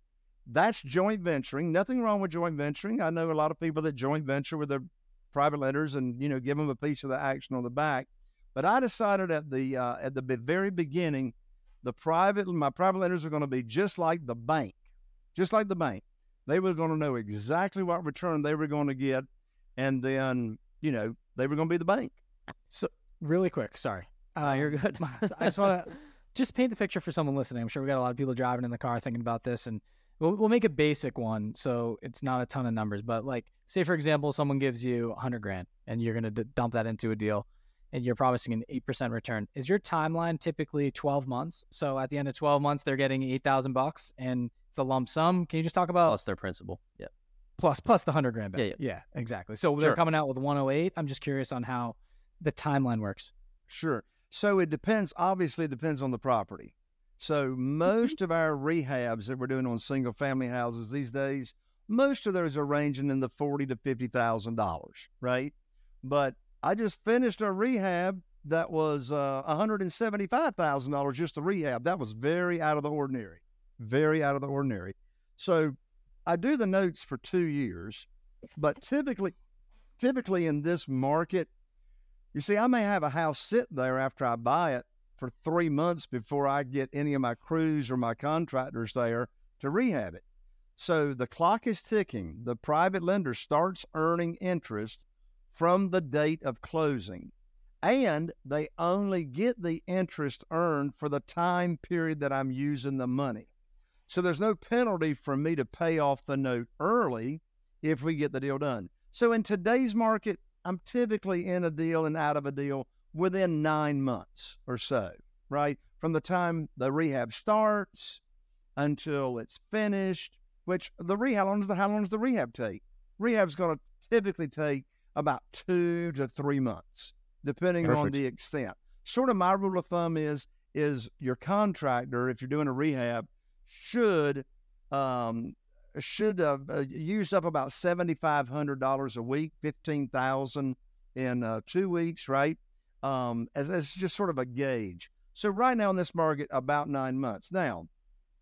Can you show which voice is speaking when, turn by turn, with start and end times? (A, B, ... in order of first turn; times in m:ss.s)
0:00.4-0:14.8 A
0:15.3-0:22.2 A
0:22.7-0:46.2 B
0:24.4-0:25.7 C
0:46.1-0:47.1 C
0:47.6-0:53.3 B
0:53.7-1:19.3 A
1:20.0-1:21.5 A
1:22.3-1:30.2 A
1:30.8-1:35.0 A
1:35.5-1:37.3 A
1:37.8-1:43.5 A
1:44.1-1:58.2 A
1:58.8-2:27.9 A
2:07.8-2:08.1 C